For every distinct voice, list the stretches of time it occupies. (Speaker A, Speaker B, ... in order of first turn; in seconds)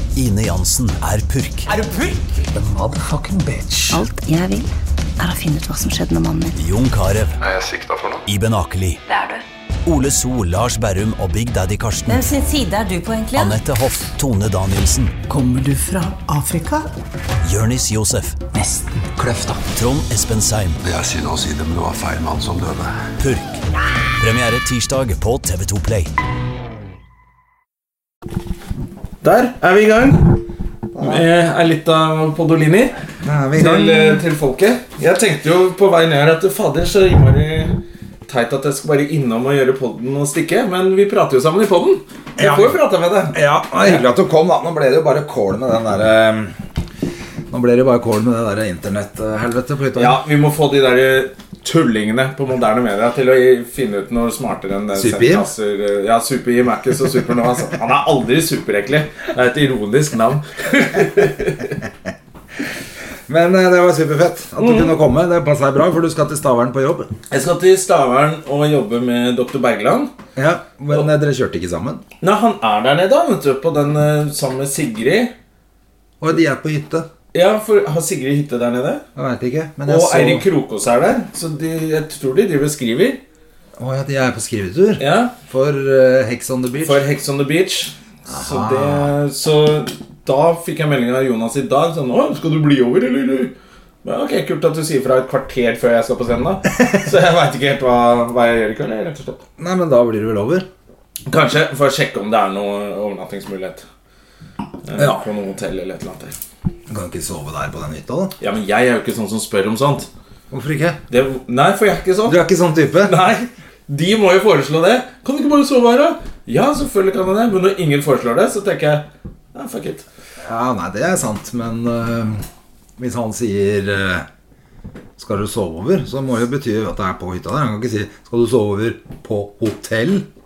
Speaker A: 0.1-1.7, 6.5-7.4, 8.3-9.0, 9.8-12.3, 13.3-15.2, 17.4-18.4, 19.6-20.8, 23.2-23.6, 24.2-26.1
Speaker B: 2.5-4.0, 15.3-16.9, 18.5-19.6
Speaker C: 3.9-6.6
Speaker D: 7.4-8.2, 20.8-23.0
Speaker E: 9.1-9.4, 12.1-13.6
Speaker F: 29.2-30.4, 31.0-32.9, 33.6-37.8, 38.3-44.0, 50.0-61.8, 64.6-65.0, 67.3-70.1, 72.2-75.3, 77.3-79.0, 79.8-83.2, 85.0-85.3, 86.8-99.4, 101.3-103.8, 104.8-106.3, 108.4-110.1, 111.1-112.4, 113.0-120.1
Speaker G: 31.0-31.2, 33.2-34.2, 42.4-42.8, 43.3-46.6, 47.5-50.2, 55.0-55.5, 63.3-67.1, 70.4-72.0, 76.2-77.1, 79.2-80.5, 83.8-87.1, 88.3-89.1, 99.6-100.7, 105.0-105.2, 106.9-108.3, 110.5-111.0, 112.2-113.2, 120.4-122.4, 123.0-124.3, 125.2-130.3